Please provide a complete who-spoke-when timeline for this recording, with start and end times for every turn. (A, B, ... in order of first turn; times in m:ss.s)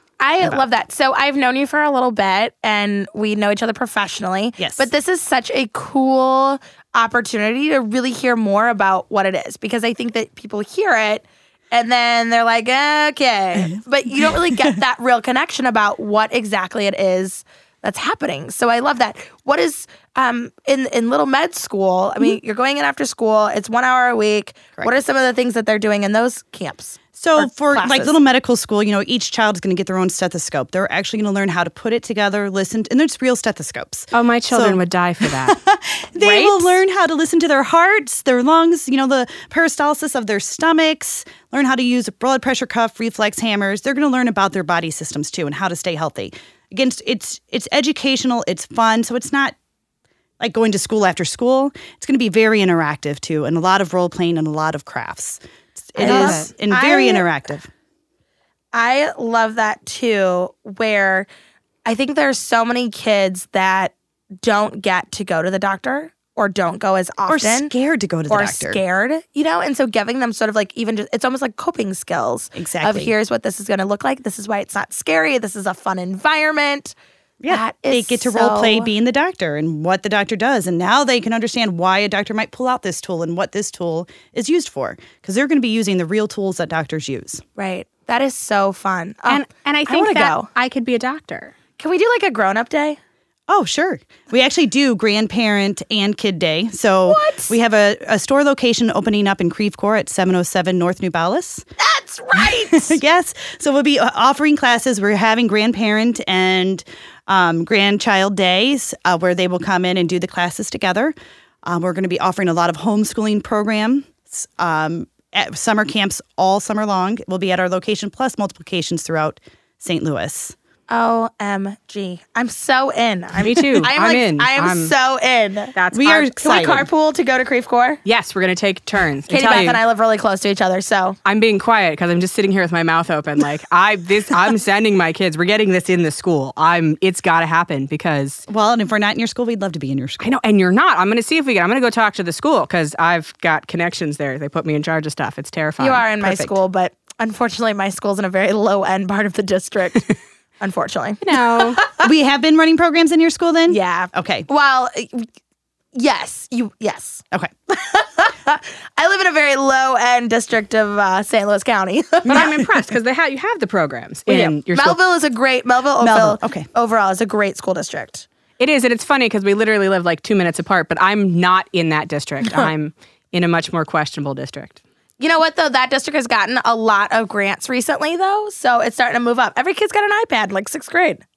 0:00.2-0:28.2 A
0:04.6-0:04.9 B
0:14.2-0:14.7 B
0:27.2-0:49.5 B
0:34.1-0:35.6 C
0:36.2-0:36.8 C
0:50.4-0:57.7 B
0:56.0-0:57.2 A
0:56.0-0:56.5 C
0:58.7-1:01.3 A
1:01.8-1:07.7 A
1:07.3-1:08.8 B
1:08.3-1:16.9 A
1:12.5-1:13.1 B
1:17.4-1:27.4 B
1:17.5-1:18.9 A
1:27.6-1:30.5 A
1:29.3-1:31.5 C
1:31.8-1:33.0 A
1:33.5-1:41.6 B
1:37.1-1:37.6 A
1:41.8-1:43.0 A
1:42.4-1:51.1 B
1:51.6-2:00.5 B
2:00.9-2:05.7 A
2:03.4-2:04.9 C
2:05.7-2:06.3 C
2:05.9-2:06.9 B
2:06.4-2:08.0 A
2:08.0-2:09.8 C
2:09.3-2:11.2 A
2:11.2-2:18.4 C
2:18.5-2:20.4 B
2:20.2-2:26.6 C
2:25.8-2:32.0 A
2:31.2-2:31.8 C
2:32.0-2:34.5 B
2:33.7-2:35.3 A
2:35.9-2:42.6 A
2:42.3-2:45.0 C
2:44.3-2:48.2 A
2:46.0-2:46.7 B
2:48.6-2:54.8 C
2:55.2-3:01.2 A